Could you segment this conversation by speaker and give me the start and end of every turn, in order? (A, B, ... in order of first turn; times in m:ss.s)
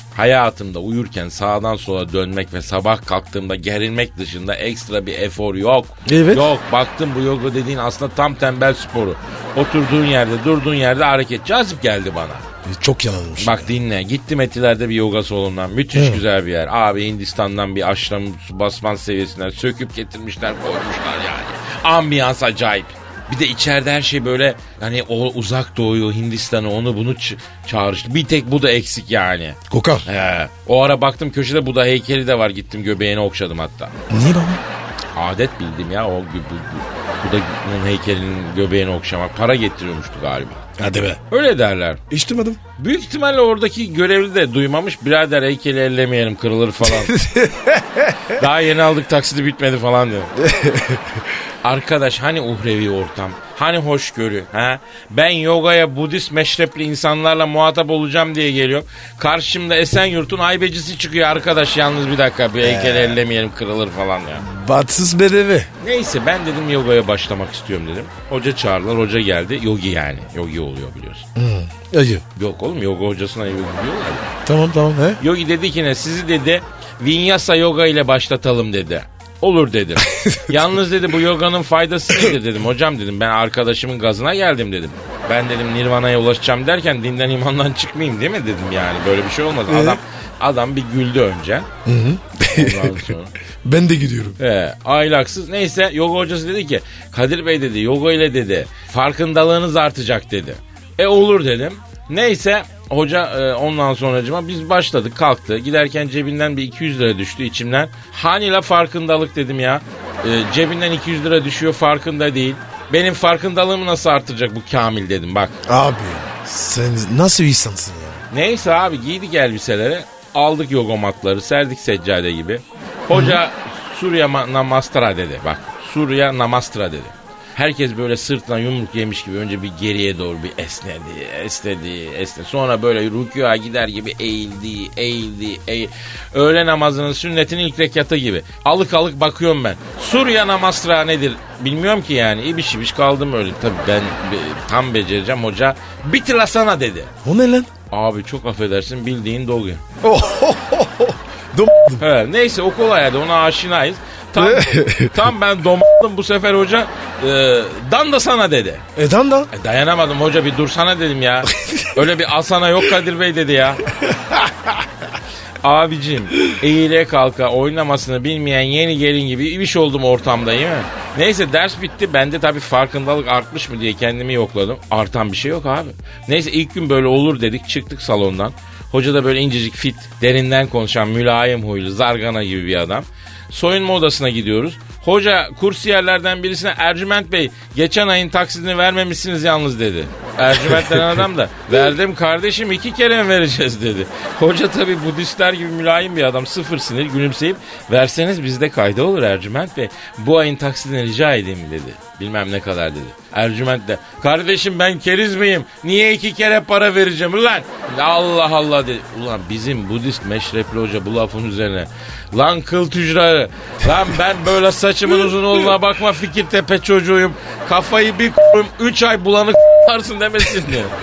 0:00.1-0:12.4 A
0:06.1-0:06.5 B
0:12.6-0:13.7 B
0:13.4-0:33.9 A
0:15.9-0:16.2 B
0:29.7-0:30.1 B
0:34.1-0:34.6 B
0:35.2-0:40.7 A
0:40.8-0:41.2 B
0:41.3-0:42.0 A
0:42.1-0:42.6 B
0:42.8-0:47.2 A
0:46.8-0:48.2 B
0:48.3-0:50.3 A
0:50.4-0:51.2 B
0:51.6-1:04.4 A
1:02.6-1:03.2 B
1:04.4-1:05.7 B
1:05.8-1:11.3 A
1:11.4-1:12.2 B
1:12.4-1:14.3 A
1:14.4-1:15.2 B
1:15.2-1:31.7 A
1:20.0-1:20.6 B
1:29.7-1:30.0 B
1:31.8-1:33.1 B
1:32.5-1:33.3 A
1:33.6-1:34.4 B
1:34.4-1:55.6 A
1:55.7-1:58.2 B
1:58.3-2:27.1 A
2:03.1-2:03.4 B
2:27.2-2:27.7 B
2:27.9-2:29.8 A
2:30.0-2:32.0 B
2:32.0-2:38.8 A
2:34.4-2:35.3 B
2:39.0-2:39.5 B
2:39.5-2:43.8 A
2:41.6-2:41.9 B
2:44.0-2:44.8 B
2:45.6-3:40.9 A
3:10.7-3:11.2 B